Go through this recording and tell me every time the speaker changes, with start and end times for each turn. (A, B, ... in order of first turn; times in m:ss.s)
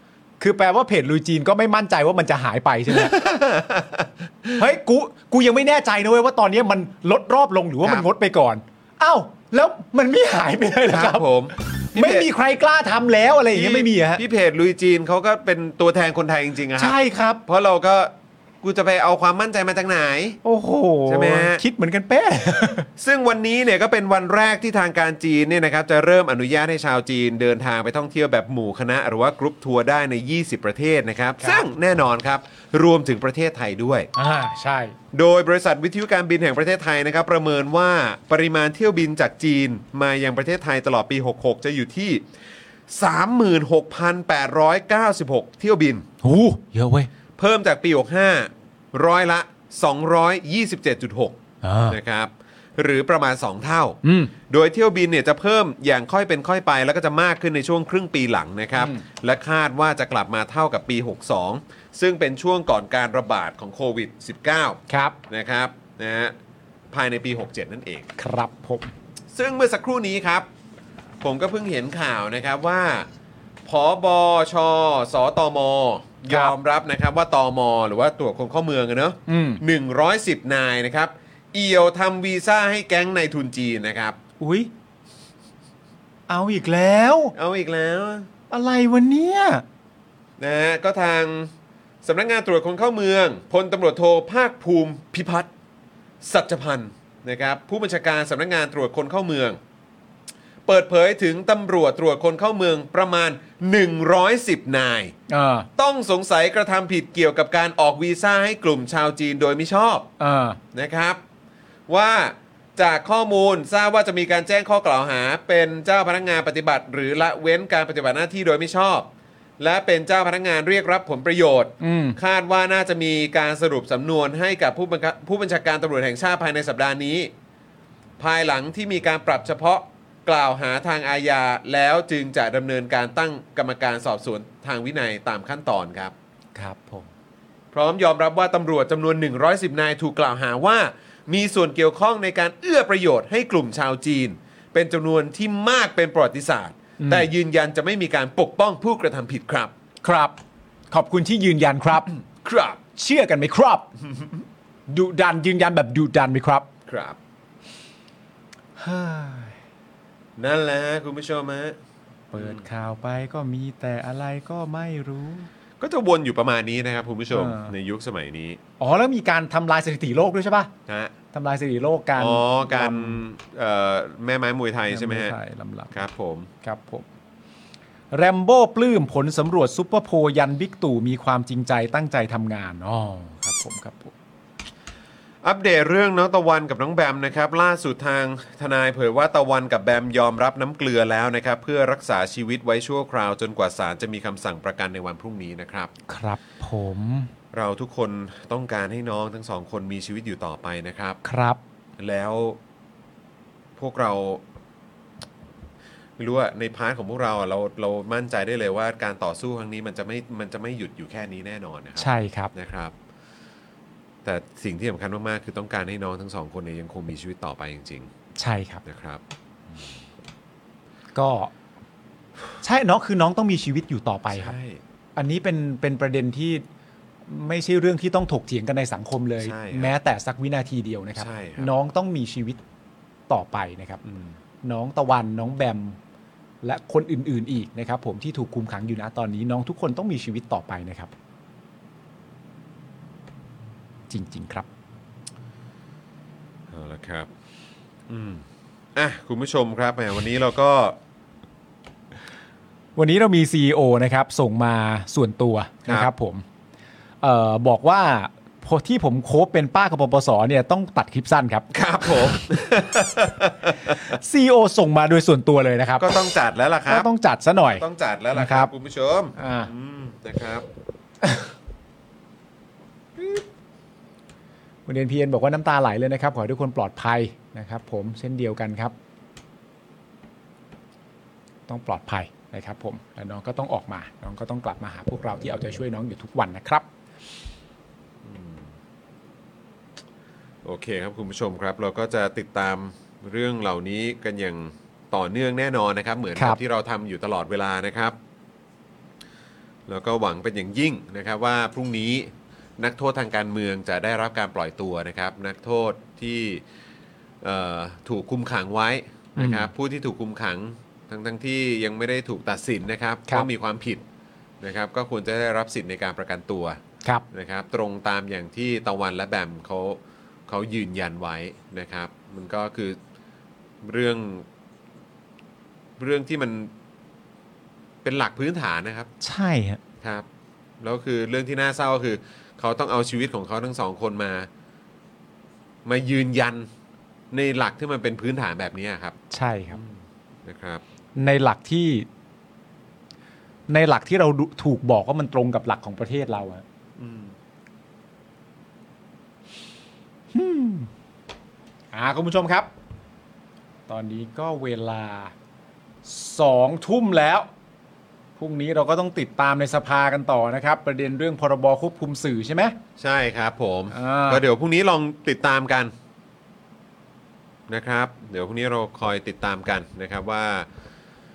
0:00.4-0:03.2 A
0:02.9-0:04.6 B
0:04.6-0:14.2 A
0:10.9-0:12.3 B
0:13.5-0:20.4 B
0:16.8-0:17.4 A
0:20.4-0:22.9 A
0:21.1-0:21.6 B
0:23.0-0:34.1 B
0:31.4-0:31.6 A
0:34.2-0:34.9 A
0:35.1-0:42.2 B
0:42.9-0:46.0 B
0:46.2-0:47.1 A
0:47.4-1:06.3 B
0:51.6-0:52.0 A
0:54.0-0:54.3 A
0:58.8-0:59.0 A
1:04.9-1:05.2 A
1:06.9-1:08.1 B
1:08.2-1:08.9 A
1:09.3-1:10.4 B
1:11.2-1:13.1 B
1:13.6-1:24.2 B
1:16.3-1:16.5 A
1:19.3-1:19.6 A
1:24.4-1:24.7 A
1:26.3-1:27.3 A
1:27.3-1:28.3 B
1:28.5-1:29.6 A
1:30.4-1:31.5 B
1:32.0-1:35.5 B
1:36.2-1:39.6 B
1:40.6-1:45.1 B
1:45.3-1:45.7 A
1:45.8-1:50.1 B
1:50.2-1:50.6 A
1:50.7-1:51.2 B
1:51.9-1:59.1 B
1:59.6-2:07.3 B
2:01.8-2:02.2 A
2:08.2-2:16.1 B
2:16.5-2:17.1 A
2:17.7-2:29.7 B
2:27.0-2:27.3 A
2:30.0-2:30.4 A
2:30.9-2:32.1 A
2:32.3-2:32.8 B
2:33.0-2:33.9 A
2:34.9-2:36.7 A
2:36.9-2:37.2 B
2:38.8-2:39.6 A
2:40.4-2:41.8 B
2:42.3-2:45.5 A
2:42.4-2:42.6 B
2:45.8-2:48.6 B
2:47.3-2:47.7 A
2:48.8-2:50.7 A
2:50.9-2:51.1 B
2:51.3-2:53.2 A
2:52.2-2:55.3 B
2:54.9-2:56.0 A
2:55.9-2:56.5 B
2:56.6-2:57.0 A
2:58.1-3:04.1 A
3:05.4-3:15.9 B
3:16.1-3:17.3 A
3:17.5-3:21.2 B
3:21.2-3:21.6 A
3:22.0-3:22.6 B
3:23.8-3:24.4 B
3:26.2-3:32.9 B
3:32.0-3:32.5 A
3:34.2-3:38.1 B
3:38.4-3:38.8 A
3:38.8-3:39.2 B
3:41.1-3:41.5 A
3:42.6-3:44.5 A
3:44.3-3:44.8 B
3:45.2-3:46.6 A
3:47.2-3:52.6 A
3:49.4-3:49.9 B
3:51.2-3:51.7 B
3:53.3-3:54.0 A
3:54.0-3:54.3 B
3:54.6-3:56.0 A
3:56.6-4:01.1 A
4:04.1-4:04.7 A
4:06.7-4:07.3 B
4:08.1-4:11.0 B
4:13.0-4:16.4 A
4:17.2-4:22.4 A
4:21.7-4:24.2 B
4:23.9-4:26.1 A
4:26.0-4:27.1 B
4:26.9-4:28.7 A
4:27.7-4:30.6 B
4:29.4-4:29.7 A
4:34.9-4:38.9 A
4:41.7-4:46.8 A
4:48.2-4:48.7 B
4:50.6-4:58.2 B
4:59.9-5:06.6 B
5:07.4-5:14.0 B
5:09.4-5:09.7 A
5:14.6-5:16.8 B
5:17.3-5:23.0 B
5:23.8-5:24.4 B
5:26.0-5:26.7 B
5:28.0-5:29.1 B
5:29.2-5:29.8 A
5:30.0-5:30.3 B
5:30.8-5:34.5 B
5:35.8-5:36.7 B
5:37.3-5:39.1 B
5:39.3-5:39.8 A
5:39.7-5:40.8 B
5:41.2-5:42.1 A
5:43.7-5:46.6 A
5:47.0-5:47.3 B
5:50.3-5:50.9 A
5:51.9-5:52.7 A
5:53.9-5:55.3 A
5:56.0-5:57.5 A
5:58.4-6:02.8 A
6:03.0-6:05.9 B
6:03.9-6:04.4 A
6:07.7-6:10.7 B